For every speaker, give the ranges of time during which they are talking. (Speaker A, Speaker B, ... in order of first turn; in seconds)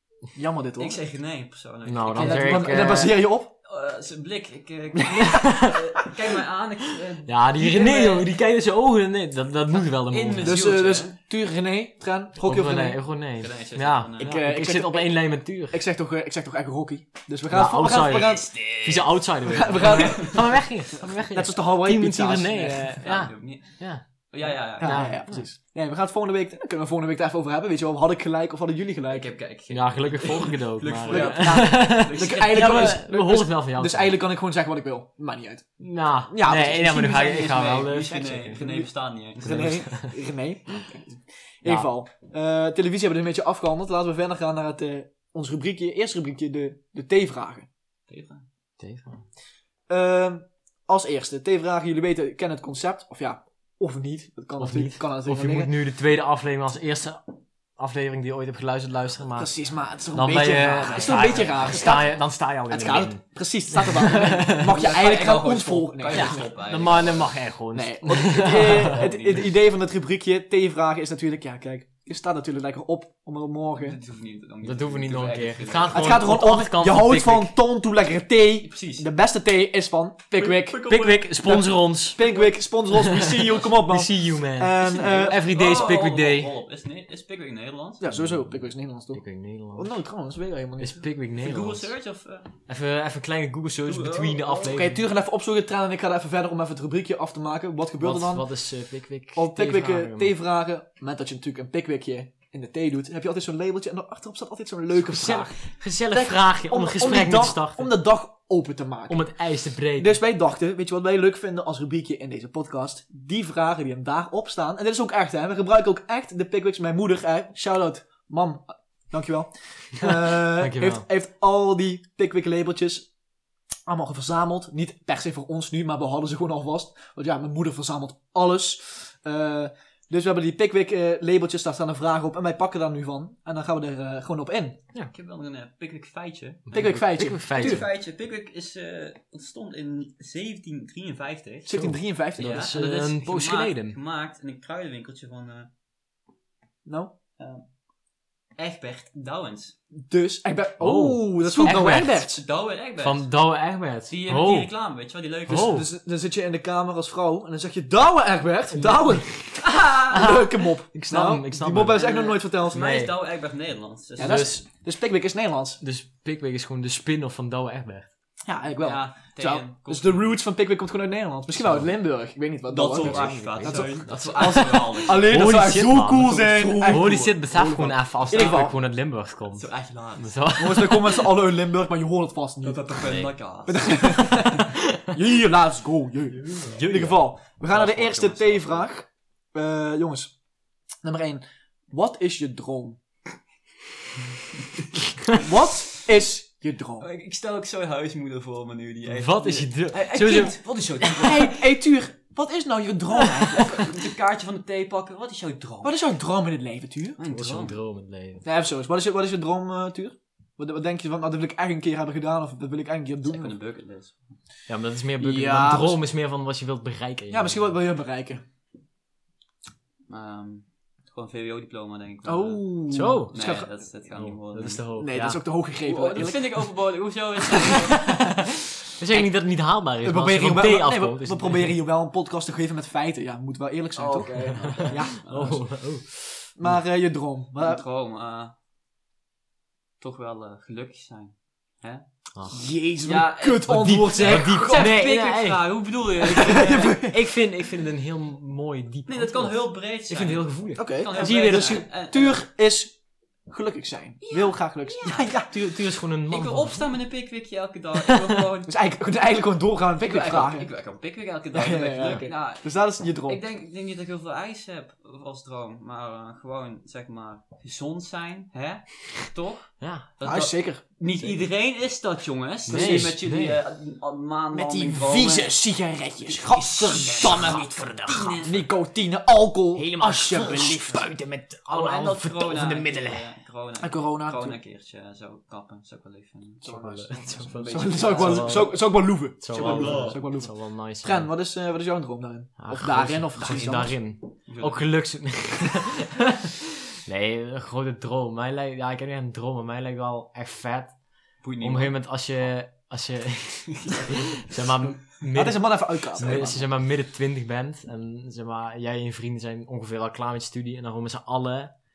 Speaker A: 0.3-1.0, 2.2-3.5, 5.0-5.5, 10.4-13.0, 14.2-18.7, 19.5-20.6, 21.3-23.0, 24.4-29.3, 31.1-35.7, 36.3-37.5, 38.0-47.7, 49.9-55.7, 59.4-66.4, 67.7-74.0, 75.9-80.9, 81.4-85.5, 88.0-91.0, 94.6-98.5, 99.3-109.3, 110.0-123.1, 123.9-134.8, 136.7-137.9, 141.7-142.7, 146.9-147.1, 150.0-152.4, 155.5-162.8, 164.2-165.8, 168.5-178.8, 180.6-190.3, 191.0-193.0, 195.3-197.1, 199.9-203.9, 205.8-207.2, 208.4-213.6, 215.2-216.0, 217.3-218.4, 222.2-223.7, 225.0-226.6, 230.0-235.6, 236.6-237.8, 242.5-244.9, 246.3-247.2, 250.8-252.9, 253.5-255.8, 258.7-260.7, 261.5-263.4, 270.2-271.4, 272.7-273.2, 274.5-277.7, 278.4-281.1, 283.8-284.6, 286.6-294.0, 305.3-306.6
Speaker B: 0.8-3.1, 3.6-8.3, 9.9-11.2, 13.4-14.3, 17.8-20.5, 23.0-25.2, 29.1-33.0, 36.8-40.0, 48.1-48.5, 60.8-62.0, 64.5-67.4, 68.5-69.6, 73.7-76.4, 78.6-79.1, 80.4-82.6, 84.8-88.0, 91.4-92.6, 93.8-94.8, 135.1-141.8, 142.3-145.7, 147.4-147.7, 148.6-149.8, 151.5-153.3, 154.1-155.8, 159.6-160.2, 161.9-164.6, 168.8-170.4, 172.7-175.5, 176.5-177.3, 178.3-178.7, 179.5-180.4, 182.6-184.6, 187.7-188.9, 197.0-201.6, 203.2-205.9, 207.2-207.8, 213.2-214.4, 220.1-222.8, 223.3-224.9, 225.8-228.3, 233.9-235.6, 237.6-238.6, 240.0-242.1, 243.0-247.0, 249.1-252.4, 254.2-255.3, 256.3-258.7, 260.0-275.6, 276.3-278.7, 281.7-288.7, 289.5-290.2, 294.5-294.9, 301.4-302.0, 303.8-304.4, 306.2-306.5
Speaker C: 1.9-3.2, 5.3-5.8, 7.3-10.7, 12.4-15.8, 17.5-25.5, 29.7-34.2, 35.8-38.6, 39.4-40.1, 48.8-49.3, 54.6-57.2, 57.8-59.5, 60.1-64.8, 66.1-69.0, 74.6-77.5, 80.8-82.2, 82.9-86.5, 88.1-89.9, 90.8-91.9, 92.7-95.0, 98.0-100.3, 104.9-107.9, 109.1-110.1, 120.1-121.0, 136.7-137.9, 141.7-144.0, 150.8-152.2, 153.0-154.7, 155.5-155.9, 158.7-162.1, 162.7-163.1, 164.2-164.6, 165.8-168.1, 171.5-171.9, 173.0-181.3, 186.4-187.2, 199.1-200.6, 207.2-208.4, 214.7-217.7, 222.9-223.3, 224.1-225.4, 227.6-231.8, 234.4-236.8, 243.6-251.8, 255.4-256.9, 258.1-258.4, 269.8-270.1, 272.7-273.6, 276.6-278.5, 279.8-283.3, 286.6-291.3, 292.6-296.4, 297.0-301.0, 301.6-311.7